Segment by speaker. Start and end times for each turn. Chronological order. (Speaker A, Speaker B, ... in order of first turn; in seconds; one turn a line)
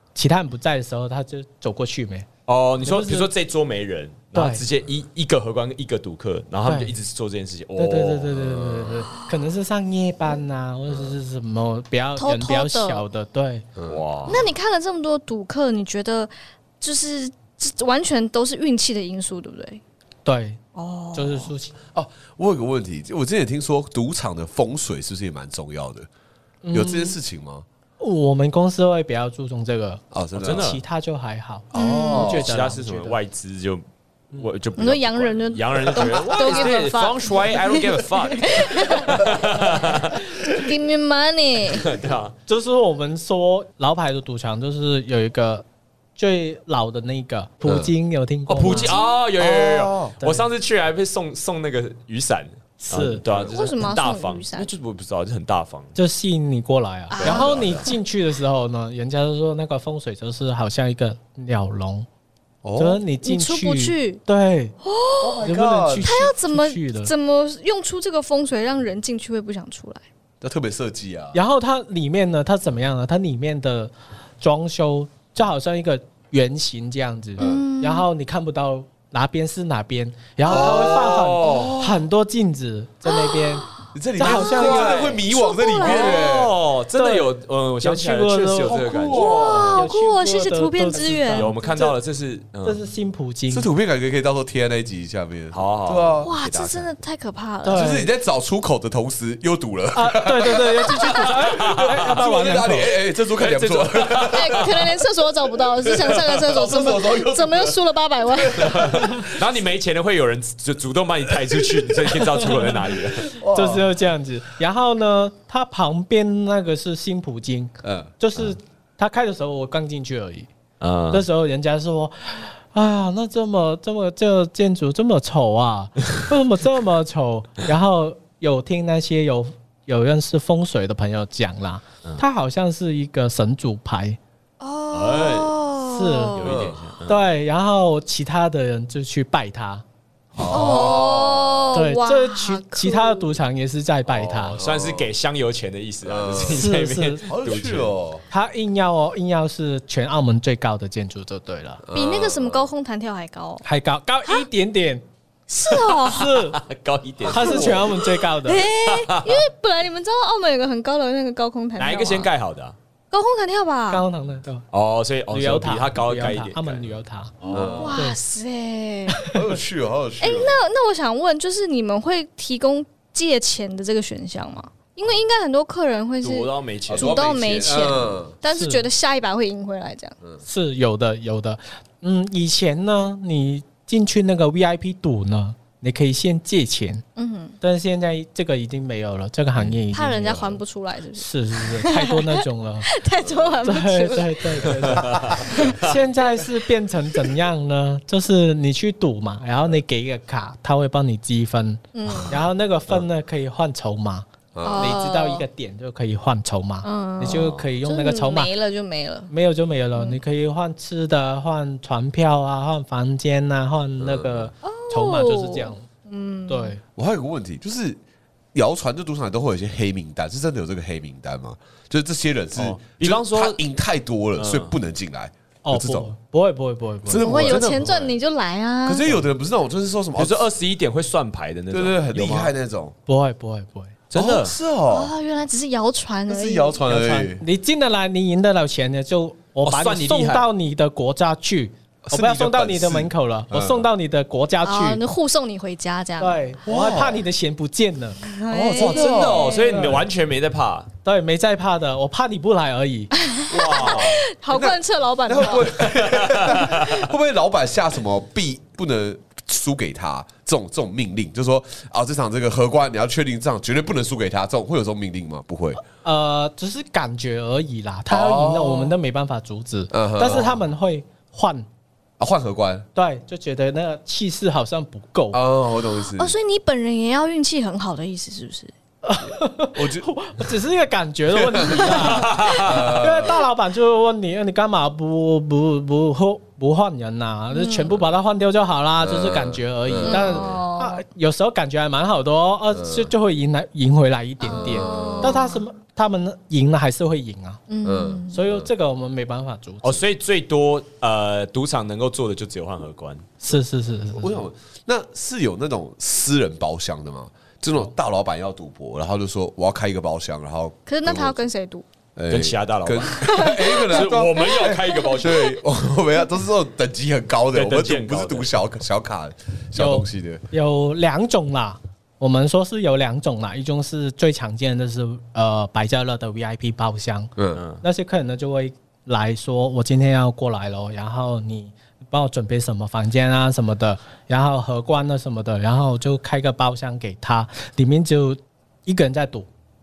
Speaker A: 0.1-2.3
Speaker B: 2.5-8.4
Speaker A: 2.8-3.3
Speaker A: 4.3-4.6
Speaker A: 6.7-7.0
Speaker A: 7.8-13.7
Speaker C: 8.4-9.1
Speaker C: 10.9-11.2
Speaker D: 12.2-13.0
Speaker C: 13.8-14.3
Speaker B: 13.9-14.5
Speaker D: 14.3-19.8
Speaker A: 20.2-20.6
Speaker D: 20.8-21.5
Speaker A: 21.1-21.8
Speaker C: 21.9-26.1
Speaker A: 26.6-27.2
Speaker C: 26.7-27.6
Speaker A: 28.0-33.2
Speaker C: 30.1-30.6
Speaker B: 30.4-30.8
Speaker C: 31.7-32.6
Speaker D: 31.7-32.4
Speaker B: 32.2-33.8
Speaker B: 34.4-40.2
Speaker D: 34.8-41.9
Speaker B: 41.7-42.3
Speaker A: 42.5-45.6
Speaker A: 46.2-49.0
Speaker C: 47.6-47.9
Speaker B: 48.5-55.9
Speaker D: 48.7-49.2
Speaker C: 49.4-50.2
Speaker A: 52.8-53.2
Speaker C: 53.3-53.5
Speaker D: 53.5-54.7
Speaker A: 56.0-62.1
Speaker D: 57.1-57.9
Speaker B: 57.2-57.9
Speaker C: 57.2-57.8
Speaker C: 62.6-63.0
Speaker A: 62.8-64.8
Speaker D: 63.2-64.2
Speaker D: 64.8-65.5
Speaker C: 65.2-66.2
Speaker A: 65.4-67.1
Speaker D: 66.0-70.0
Speaker C: 70.4-71.4
Speaker A: 71.3-85.1
Speaker C: 77.4-77.6
Speaker D: 77.4-78.1
Speaker B: 80.5-81.8
Speaker C: 80.5-82.0
Speaker D: 83.1-83.5
Speaker C: 83.9-86.5
Speaker B: 84.2-85.2
Speaker D: 84.7-86.3
Speaker B: 85.8-89.6
Speaker A: 87.0-88.8
Speaker C: 88.6-89.9
Speaker D: 89.1-91.5
Speaker A: 89.4-92.0
Speaker B: 91.3-92.8
Speaker A: 92.6-93.7
Speaker C: 93.5-96.3
Speaker B: 95.5-96.9
Speaker D: 96.2-97.9
Speaker A: 97.6-98.1
Speaker C: 97.7-104.9
Speaker A: 99.9-103.0
Speaker B: 101.5-102.0
Speaker B: 103.3-104.9
Speaker D: 104.3-109.1
Speaker C: 105.8-109.3
Speaker B: 108.5-113.4
Speaker C: 113.4-113.9
Speaker A: 113.5-120.5
Speaker C: 117.8-118.1
Speaker B: 120.8-121.2
Speaker A: 121.1-134.2
Speaker D: 134.6-136.4
Speaker B: 134.9-135.6
Speaker A: 135.9-136.4
Speaker B: 136.3-137.2
Speaker C: 136.4-136.8
Speaker A: 137.1-139.8
Speaker C: 140.3-141.8
Speaker D: 140.5-143.3
Speaker A: 141.7-144.6
Speaker B: 144.3-147.9
Speaker C: 144.4-145.1
Speaker C: 146.0-146.7
Speaker A: 146.5-147.3
Speaker C: 147.3-148.2
Speaker A: 148.3-151.8
Speaker C: 151.8-152.7
Speaker D: 151.9-153.6
Speaker A: 153.6-155.0
Speaker D: 155.5-156.4
Speaker A: 156.0-156.6
Speaker B: 156.6-157.9
Speaker A: 157.2-158.7
Speaker D: 157.4-157.8
Speaker C: 157.5-157.8
Speaker D: 158.4-162.3
Speaker B: 158.8-159.4
Speaker B: 161.8-162.8
Speaker D: 163.1-164.0
Speaker A: 163.9-164.7
Speaker B: 164.7-166.9
Speaker A: 165.3-167.3
Speaker B: 167.4-167.9
Speaker C: 167.5-168.1
Speaker D: 167.8-169.3
Speaker C: 169.3-170.6
Speaker D: 170.2-180.2
Speaker B: 176.2-178.0
Speaker C: 176.9-178.3
Speaker A: 178.5-178.9
Speaker A: 180.4-187.0
Speaker D: 187.2-187.6
Speaker A: 187.6-190.6
Speaker D: 189.9-196.4
Speaker A: 191.2-192.9
Speaker C: 193.2-193.6
Speaker A: 193.6-208.5
Speaker C: 195.1-195.6
Speaker D: 201.9-202.4
Speaker C: 204.5-205.0
Speaker D: 204.6-205.4
Speaker D: 206.8-209.3
Speaker B: 207.3-207.7
Speaker A: 209.3-215.9
Speaker D: 209.9-210.2
Speaker C: 214.0-214.5
Speaker D: 214.6-216.8
Speaker A: 216.5-216.8
Speaker C: 217.0-218.0
Speaker C: 218.5-226.1
Speaker B: 222.6-223.6
Speaker B: 224.4-224.8
Speaker A: 225.7-227.3
Speaker C: 227.1-228.0
Speaker B: 227.2-228.1
Speaker D: 227.2-229.1
Speaker C: 228.8-230.5
Speaker B: 230.2-232.5
Speaker C: 231.7-232.9
Speaker A: 233.1-233.9
Speaker B: 234.1-234.5
Speaker C: 234.1-235.1
Speaker D: 234.9-236.8
Speaker C: 236.3-237.4
Speaker A: 236.9-245.0
Speaker B: 239.6-240.5
Speaker C: 242.1-243.9
Speaker D: 244.6-246.4
Speaker A: 246.2-248.2
Speaker C: 246.7-247.2
Speaker D: 248.2-249.8
Speaker C: 248.5-249.6
Speaker B: 248.8-250.9
Speaker A: 249.7-250.1
Speaker A: 251.1-253.1
Speaker D: 253.3-255.8
Speaker B: 253.5-254.2
Speaker C: 253.5-265.8
Speaker B: 255.8-257.1
Speaker A: 265.9-271.7
Speaker C: 268.1-268.9
Speaker C: 269.9-270.6
Speaker C: 272.2-272.9
Speaker A: 272.9-275.4
Speaker C: 275.3-276.3
Speaker D: 276.1-278.7
Speaker A: 279.0-297.6
Speaker C: 279.8-280.1
Speaker C: 281.3-283.4
Speaker D: 281.9-282.6
Speaker B: 282.3-282.8
Speaker D: 287.5-288.0
Speaker C: 289.0-290.5
Speaker D: 290.1-291.0
Speaker C: 292.7-293.1
Speaker D: 294.4-295.6
Speaker C: 294.5-295.5
Speaker D: 297.7-298.4
Speaker C: 297.8-298.7
Speaker A: 298.3-300.0
Speaker B: 299.8-303.4
Speaker A: 303.4-304.4
Speaker C: 304.2-311.4
Speaker D: 310.9-311.9
Speaker C: 312.2-320.4
Speaker B: 312.3-315.6
Speaker D: 313.1-315.4
Speaker B: 317.5-318.5
Speaker A: 319.8-327.3
Speaker C: 327.4-327.6
Speaker B: 327.6-327.8
Speaker A: 327.8-339.5